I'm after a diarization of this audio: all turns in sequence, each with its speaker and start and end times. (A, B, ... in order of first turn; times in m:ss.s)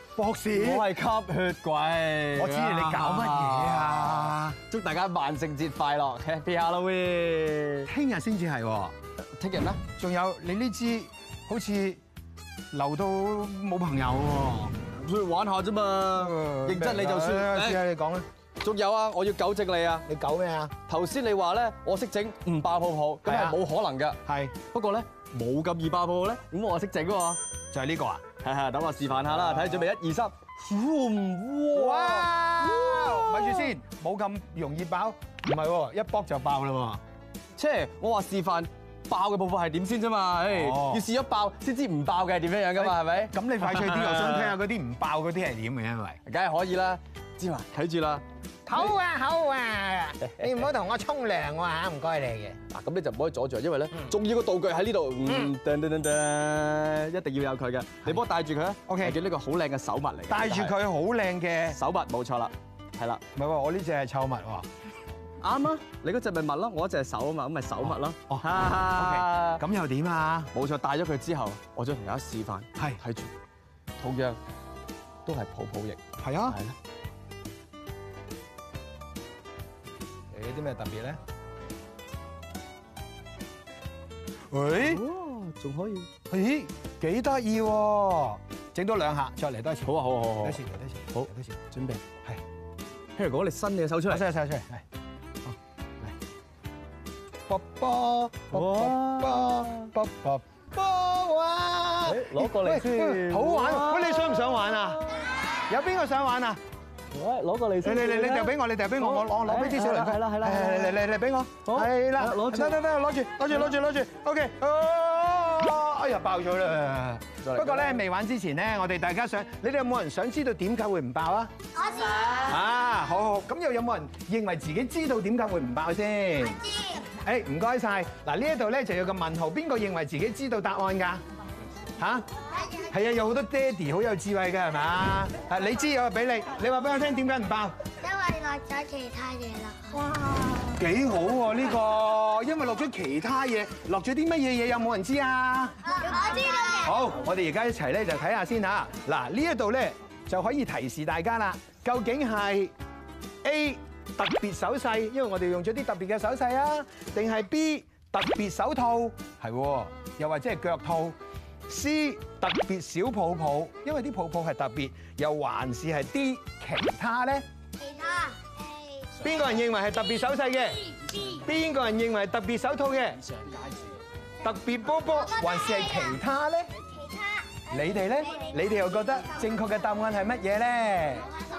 0:00.1-0:00.9 A
0:00.5-0:07.9 B
0:02.4-0:04.6 A
0:07.8-0:08.9 A
0:09.4-0:09.8 B
0:10.0-0:12.0 A
0:12.7-0:14.8 A
0:14.9-0:17.8 B
0:16.2-0:18.2 A
0:18.6-0:20.0 B
0:20.0-0:20.7 A
0:20.9-0:27.4 B
0:23.2-0:23.6 A
0:24.2-0:24.5 A
0:27.7-0:28.2 A
0:28.4-0:32.3 B
0:29.2-0:29.8 A
0:31.7-0:37.0 A
0:32.9-0:33.5 B
0:37.6-0:44.6 B
0:40.5-0:41.0 A
0:42.8-0:46.2 A
0:46.2-0:48.2 B
0:48.6-0:52.6 A
0:52.7-1:00.8 B
0:55.2-0:55.5 A
0:58.9-0:59.2 A
1:00.3-1:01.8 A
1:01.7-1:03.2 B
1:03.3-1:04.7 A
1:05.4-1:09.6 B
1:08.3-1:10.5 A
1:10.5-1:13.3 B
1:14.0-1:14.4 B
1:15.2-1:16.8 B
1:16.2-1:16.6 A
1:20.3-1:21.2 A
1:24.5-1:25.0 A
1:24.7-1:26.1 B
1:26.3-1:31.6 A
1:29.8-1:30.6 B
1:31.1-1:32.0 B
1:33.2-1:34.2 B
1:34.1-1:34.8 A
1:35.5-1:36.1 A
1:37.5-1:45.0 A
1:38.5-1:39.9 B
1:42.1-1:44.6 B
1:45.7-1:46.6 A
1:47.1-1:51.0 B
1:47.8-2:01.5 A
1:51.6-1:52.8 B
1:53.5-1:53.7 B
1:57.4-1:58.0 B
2:02.4-2:11.2 A
2:12.0-2:12.2 A
2:12.9-2:17.7 A
2:18.0-2:20.0 C
2:20.7-2:25.8 A
2:25.9-2:26.9 C
2:26.8-2:32.7 A
2:33.4-2:47.4 A
2:49.2-2:53.2 A
2:54.4-2:56.7 A
2:57.7-3:01.3 A